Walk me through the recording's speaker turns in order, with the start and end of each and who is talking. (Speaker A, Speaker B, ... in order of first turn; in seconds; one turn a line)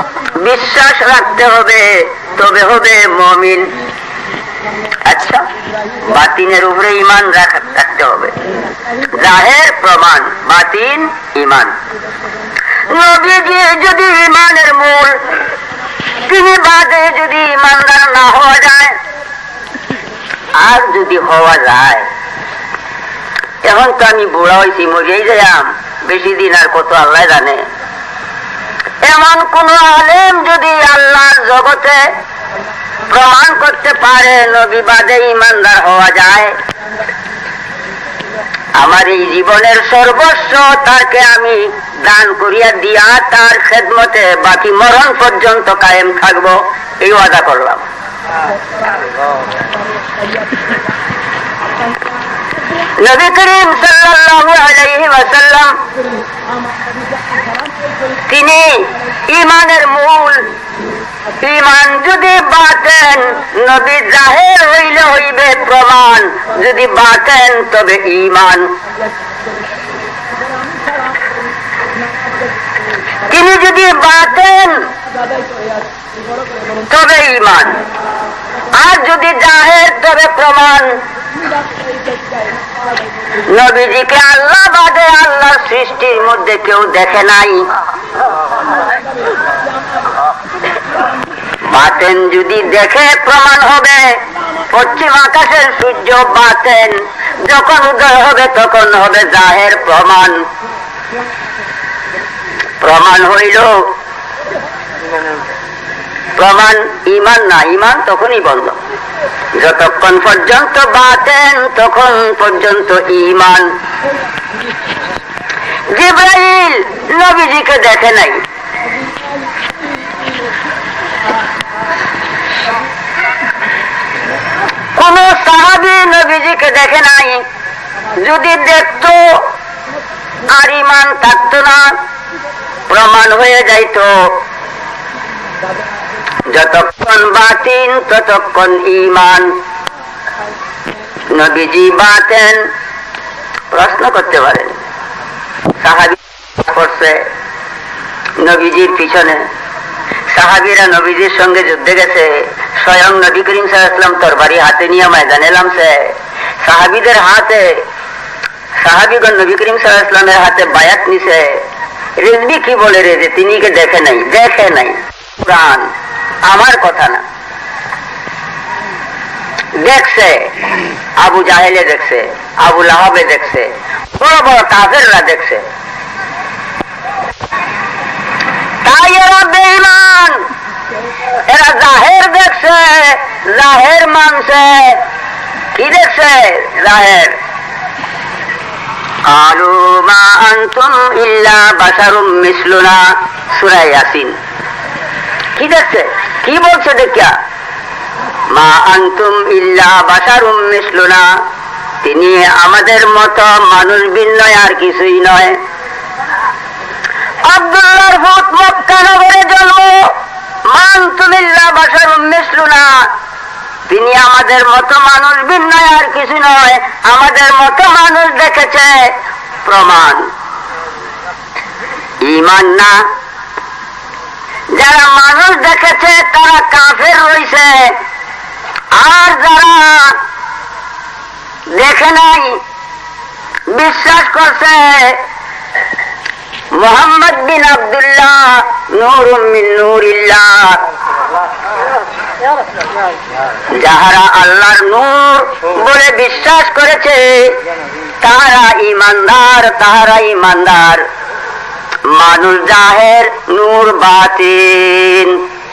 Speaker A: 0.4-3.7
Speaker A: 5.0-5.4
Speaker A: 6.0-8.3
Speaker A: 9.1-11.7
Speaker A: 12.9-15.2
Speaker A: 16.2-19.0
Speaker A: 20.6-22.0
Speaker A: 23.6-27.6
Speaker A: 29.0-32.0
Speaker A: 33.1-36.5
Speaker A: 38.8-47.8
Speaker A: 53.0-55.8
Speaker A: 58.3-60.5
Speaker A: 61.4-68.7
Speaker A: 73.3-74.9
Speaker A: 76.9-77.8
Speaker A: 78.8-81.0
Speaker A: 83.5-87.7
Speaker A: 91.6-100.4
Speaker A: 102.8-103.9
Speaker A: 106.3-108.8
Speaker A: 109.5-113.7
Speaker A: 115.9-118.4
Speaker A: 124.9-127.4
Speaker A: 128.2-129.5
Speaker A: 130.5-131.9
Speaker A: 132.9-134.4
Speaker A: 136.5-139.5
Speaker A: 141.3-142.7
Speaker A: 143.7-144.8
Speaker A: 145.8-147.3
Speaker A: 148.4-149.4
Speaker A: 150.3-157.8
Speaker A: 158.8-161.6
Speaker A: 162.2-165.9
Speaker A: 166.4-167.2
Speaker A: 169.8-170.5
Speaker A: 171.2-175.6
Speaker A: 178.8-180.4
Speaker A: 181.4-185.0
Speaker A: 185.7-187.3
Speaker A: 189.2-194.3
Speaker A: 195.6-197.3
Speaker A: 198.5-201.3
Speaker A: 202.0-205.6
Speaker A: 207.4-210.1
Speaker A: 210.7-213.1
Speaker A: 213.9-220.3
Speaker A: 222.2-223.0
Speaker A: 224.7-227.9
Speaker A: 228.9-230.2
Speaker A: 231.7-232.6
Speaker A: 233.7-235.2
Speaker A: 236.7-240.8
Speaker A: 243.7-247.6
Speaker A: 248.2-251.0
Speaker A: 252.0-255.4